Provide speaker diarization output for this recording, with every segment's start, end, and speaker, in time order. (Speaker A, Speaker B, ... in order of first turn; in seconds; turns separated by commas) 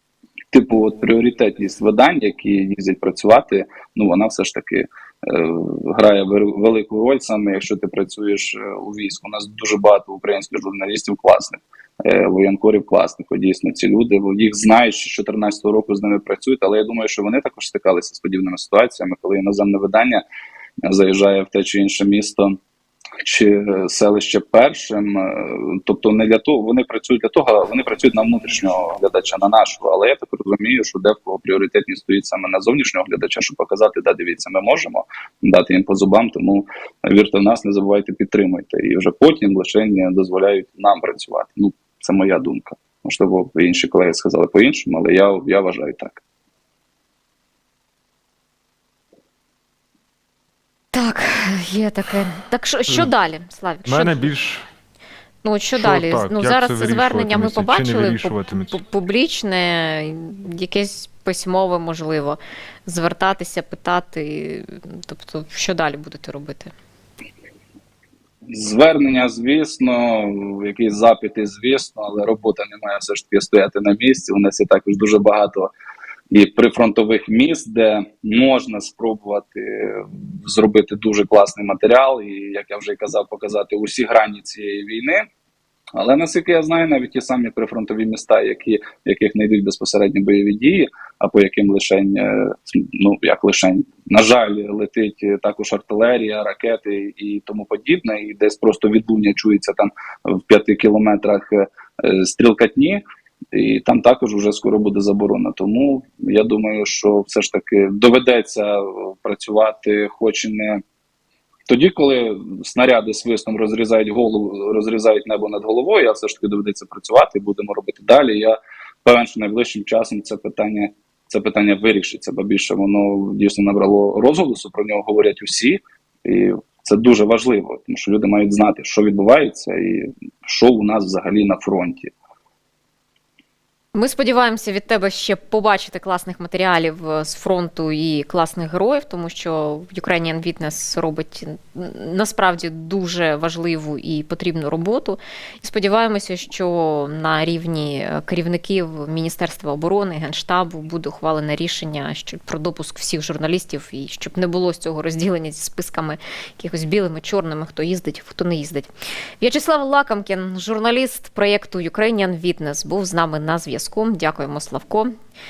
Speaker A: 0.5-20.2, Speaker A: 20.8-22.6, Speaker A: 23.2-46.2, Speaker B: 50.9-54.3, Speaker C: 53.9-54.6, Speaker B: 55.4-66.7, Speaker C: 55.7-58.8, Speaker A: 68.5-75.7, Speaker A: 76.3-85.2, Speaker A: 85.9-110.8, Speaker A: 111.7-132.1, Speaker B: 133.9-165.1